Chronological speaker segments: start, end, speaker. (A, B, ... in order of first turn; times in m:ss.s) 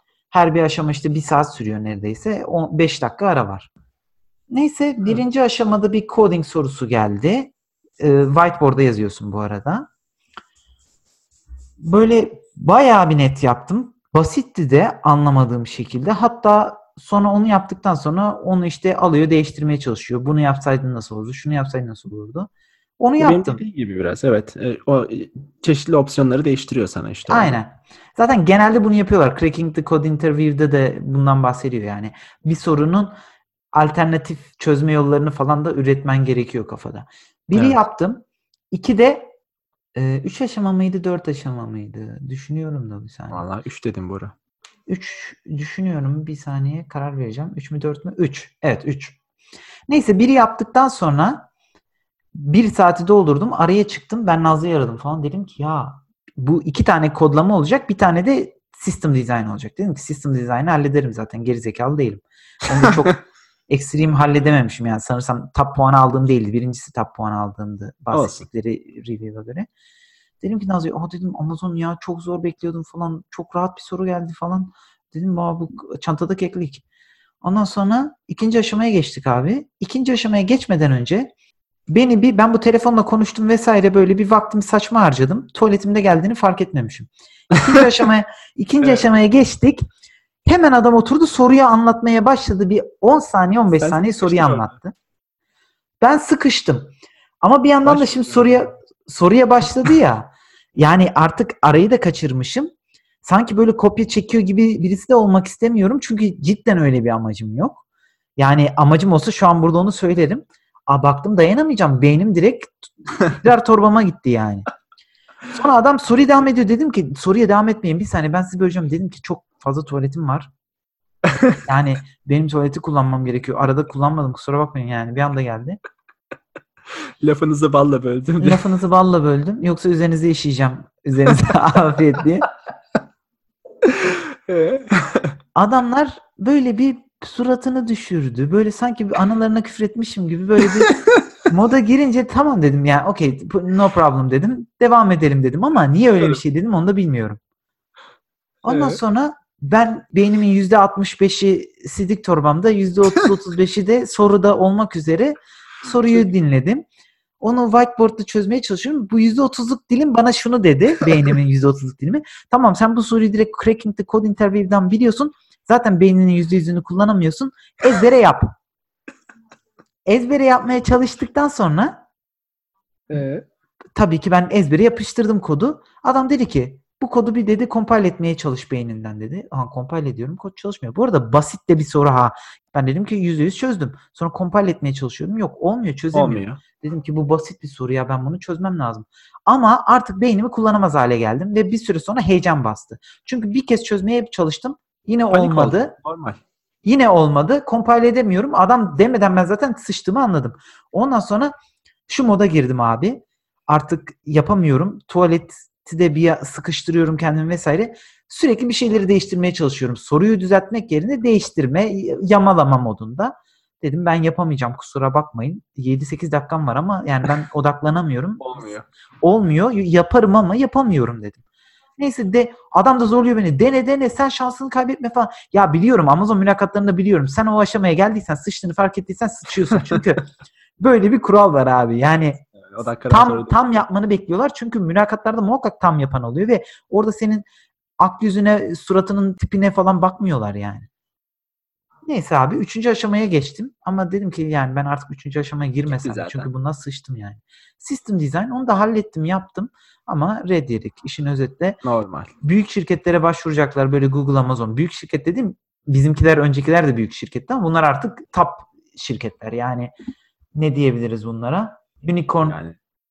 0:00.3-0:03.7 A
0:04.5-0:09.9 A
0:11.8-0:22.5 A
0:23.0-0:23.6 A
0:23.2-0:27.6 B
0:27.3-0:33.1 A
0:33.7-0:39.3 A
0:37.5-0:37.8 B
0:39.9-0:43.4 A
0:43.3-0:44.3 B
0:44.9-0:49.2 A
0:49.9-0:51.5 A
0:52.3-1:09.7 A
1:08.1-1:08.5 B
1:10.4-1:16.8 A
1:17.4-1:21.3 A
1:21.9-1:29.8 A
1:30.4-1:34.9 A
1:33.8-1:34.7 B
1:36.0-1:36.9 A
1:37.4-1:42.7 A
1:37.8-1:38.6 B
1:43.2-1:47.8 A
1:48.4-1:54.7 A
1:55.5-2:00.5 A
2:01.2-2:01.6 B
2:01.6-2:05.8 A
2:07.2-2:08.6 B
2:08.4-2:12.5 A
2:13.8-2:15.3 B
2:15.5-2:27.4 A
2:28.6-2:36.9 A
2:28.7-2:29.0 B
2:37.4-2:48.5 A
2:50.0-2:52.0 A
2:53.1-2:53.4 B
2:54.0-3:15.9 A
3:06.1-3:06.6 B
3:15.3-3:16.4 B
3:16.8-3:21.5 A
3:22.1-3:38.7 A
3:38.4-3:38.8 B
3:39.2-3:41.4 A
3:42.0-3:50.3 A
3:50.8-3:52.4 A
3:52.6-3:53.8 B
3:53.1-3:57.4 A
3:58.0-4:00.9 A
4:02.0-4:11.8 A
4:05.9-4:06.5 B
4:11.8-4:12.3 B
4:12.4-4:19.9 A
4:20.6-4:22.6 A
4:22.4-4:22.8 B